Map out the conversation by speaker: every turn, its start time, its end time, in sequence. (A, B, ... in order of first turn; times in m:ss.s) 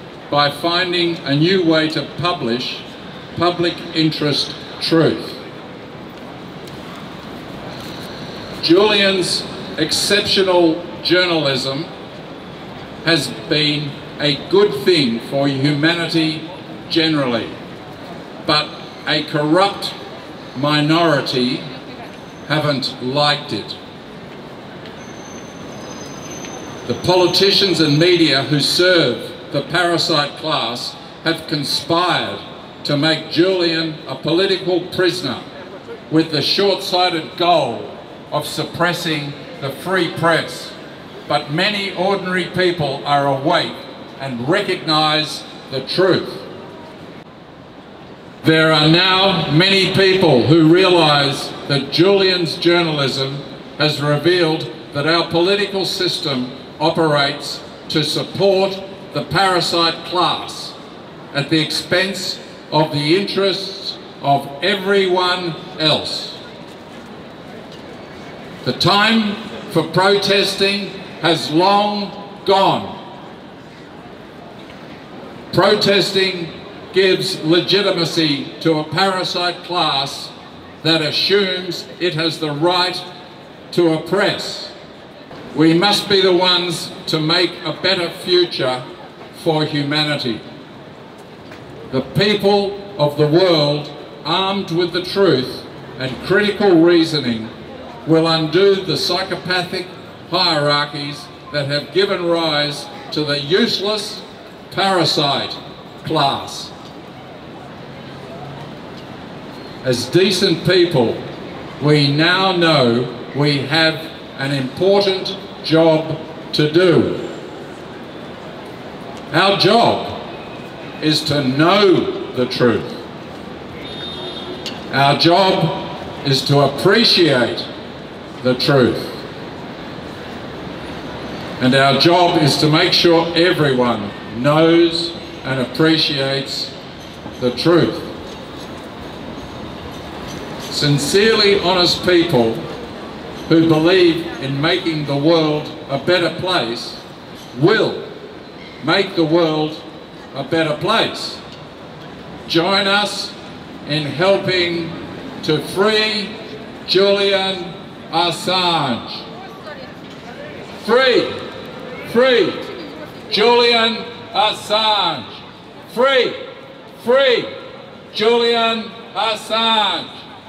0:00.3-0:05.4 A
0:08.6-0:11.9 A
0:13.0-0:17.6 A
0:18.4-0:20.0 A
0:20.6-0:21.7 A
0:22.5-0:23.8 A
0:26.9-0:35.5 A
0:36.1-0:40.8 A
0:41.3-0:46.5 A
0:48.4-1:00.8 A
1:01.3-1:06.4 A
1:08.6-1:13.0 A
1:15.5-1:23.0 A
1:23.7-1:24.7 A
1:25.5-1:30.4 A
1:31.9-1:37.5 A
1:38.0-1:46.7 A
1:49.8-1:51.2 A
1:51.8-1:57.3 A
1:59.3-2:00.2 A
2:01.0-2:03.0 A
2:04.9-2:07.7 A
2:08.4-2:09.2 A
2:11.6-2:16.7 A
2:17.4-2:18.1 A
2:20.7-2:22.6 A
2:23.5-2:27.0 A
2:27.5-2:28.0 A
2:28.8-2:31.4 A
2:32.5-2:33.3 A
2:33.8-2:36.3 A
2:36.8-2:39.2 A
2:40.8-2:41.4 A
2:42.0-2:42.6 A
2:43.3-2:46.4 A
2:47.0-2:47.5 A
2:48.1-2:50.1 A